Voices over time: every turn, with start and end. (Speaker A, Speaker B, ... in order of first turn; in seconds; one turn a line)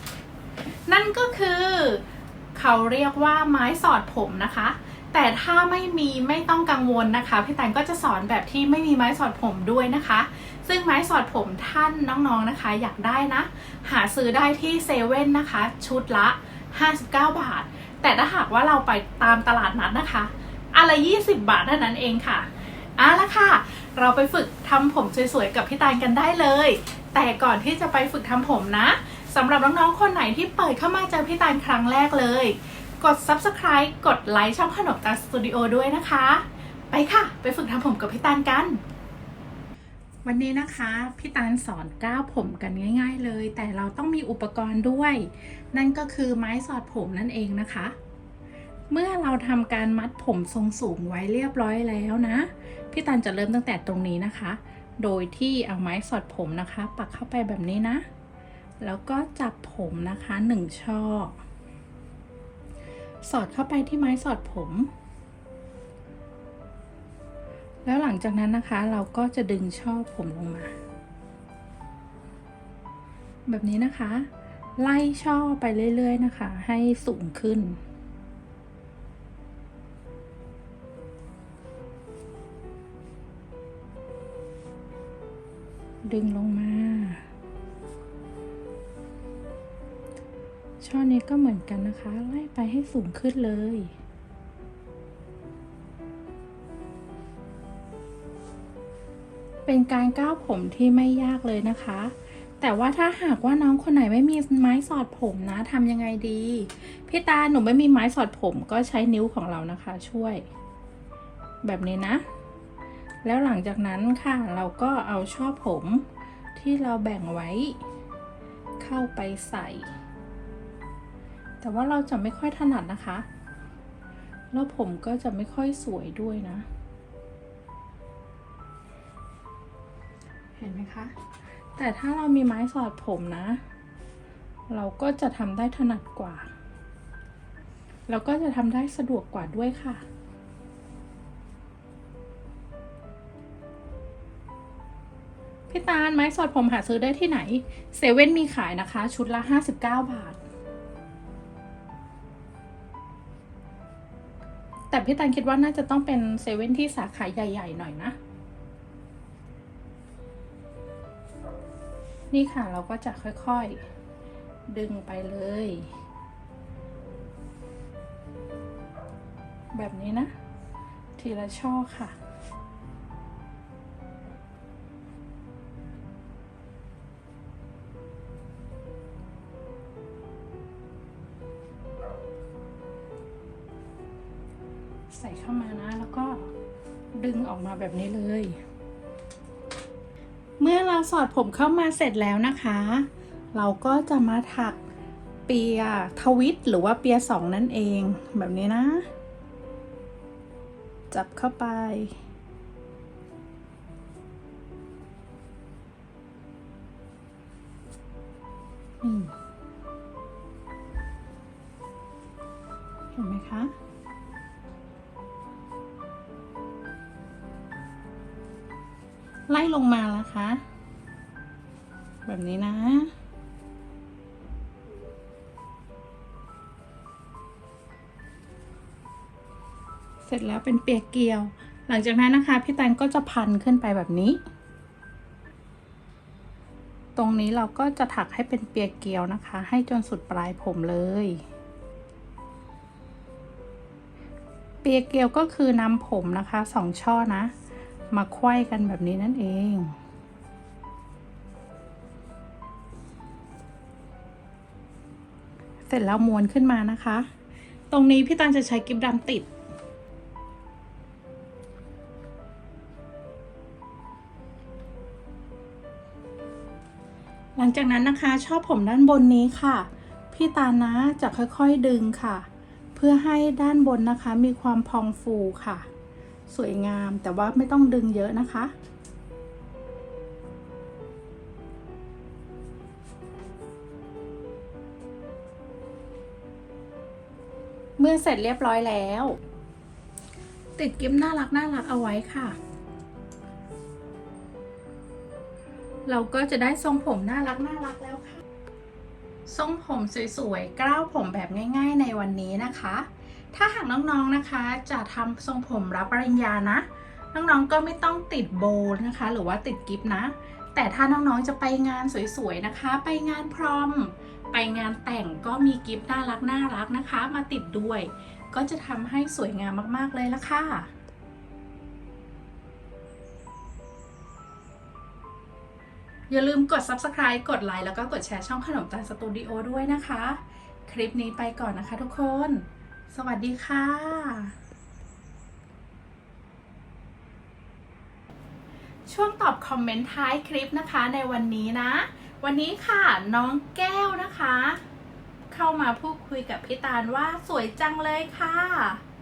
Speaker A: 0.9-2.0
Speaker A: 2.5-38.8
Speaker A: 40.2-47.9
Speaker A: 48.9-58.0
Speaker A: 58.8-61.4
Speaker A: 63.2-64.9
Speaker A: 67.8-70.7
Speaker A: 73.5-77.8
Speaker A: 86.0-87.2
Speaker A: 90.8-93.9
Speaker A: 99.6-110.5
Speaker A: 111.6-112.2
Speaker A: 113.2-117.8
Speaker A: 118.8-119.9
Speaker A: 121.6-123.2
Speaker A: 124.5-126.7
Speaker A: 130.6-131.1
Speaker A: 131.8-133.6
Speaker A: 134.7-136.5
Speaker A: 138.1-140.0
Speaker A: 145.7-150.4
Speaker A: 154.9-158.2
Speaker A: 162.3-163.8
Speaker A: 164.7-165.9
Speaker A: 169.7-170.3
Speaker A: 171.2-172.2
Speaker A: 185.1-186.5
Speaker A: 187.2-188.6
Speaker A: 190.6-194.8
Speaker A: 195.5-199.1
Speaker A: 201.1-202.2
Speaker A: 209.0-209.3
Speaker A: 213.1-213.7
Speaker A: 219.5-220.6
Speaker A: 222.2-223.1
Speaker A: 230.2-234.4
Speaker A: 237.2-241.4
Speaker A: 244.8-247.5
Speaker A: 248.1-249.9
Speaker A: 255.9-257.3
Speaker A: 257.9-259.5
Speaker A: 267.6-275.9
Speaker A: 276.5-278.7
Speaker A: 288.0-289.4
Speaker A: 290.8-292.6
Speaker A: 296.1-298.4
Speaker A: 299.4-320.9
Speaker A: 326.3-334.5
Speaker A: 339.1-344.8
Speaker A: 345.5-349.0